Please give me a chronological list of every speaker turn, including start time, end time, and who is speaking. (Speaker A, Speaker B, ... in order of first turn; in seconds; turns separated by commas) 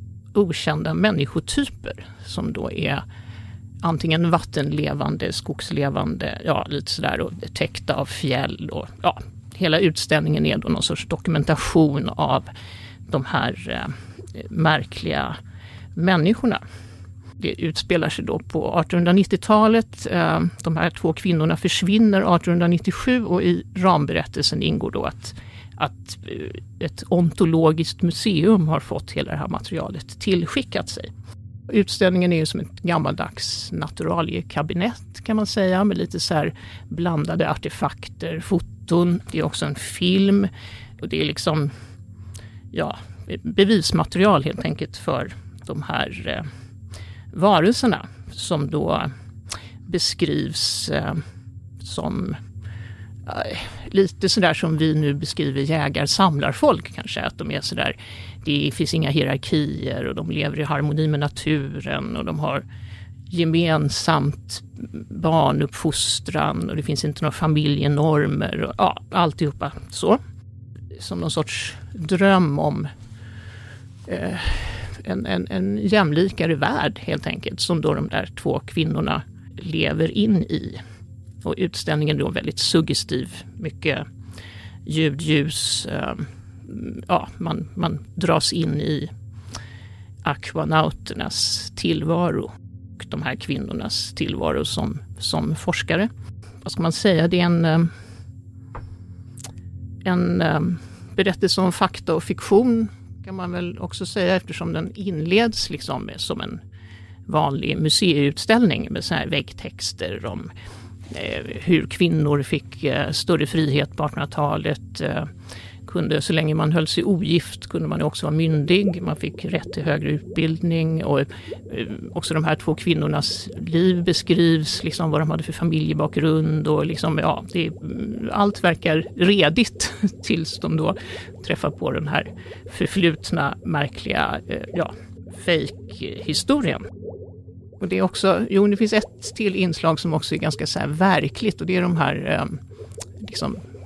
Speaker A: 0.3-3.0, Speaker A: 3.8-12.5, Speaker A: 13.1-15.4, Speaker A: 16.0-16.6, Speaker A: 17.4-31.1, Speaker A: 31.7-41.7, Speaker A: 42.7-46.5, Speaker A: 47.3-49.1, Speaker A: 49.9-51.2, Speaker A: 51.8-52.4, Speaker A: 53.3-62.6, Speaker A: 63.3-70.2, Speaker A: 70.9-72.9, Speaker A: 74.1-80.8, Speaker A: 81.4-84.1, Speaker A: 84.9-89.1, Speaker A: 90.2-96.1, Speaker A: 96.6-97.9, Speaker A: 100.0-106.6, Speaker A: 107.3-110.5, Speaker A: 111.1-115.3, Speaker A: 115.9-136.9, Speaker A: 137.8-142.6, Speaker A: 143.2-143.6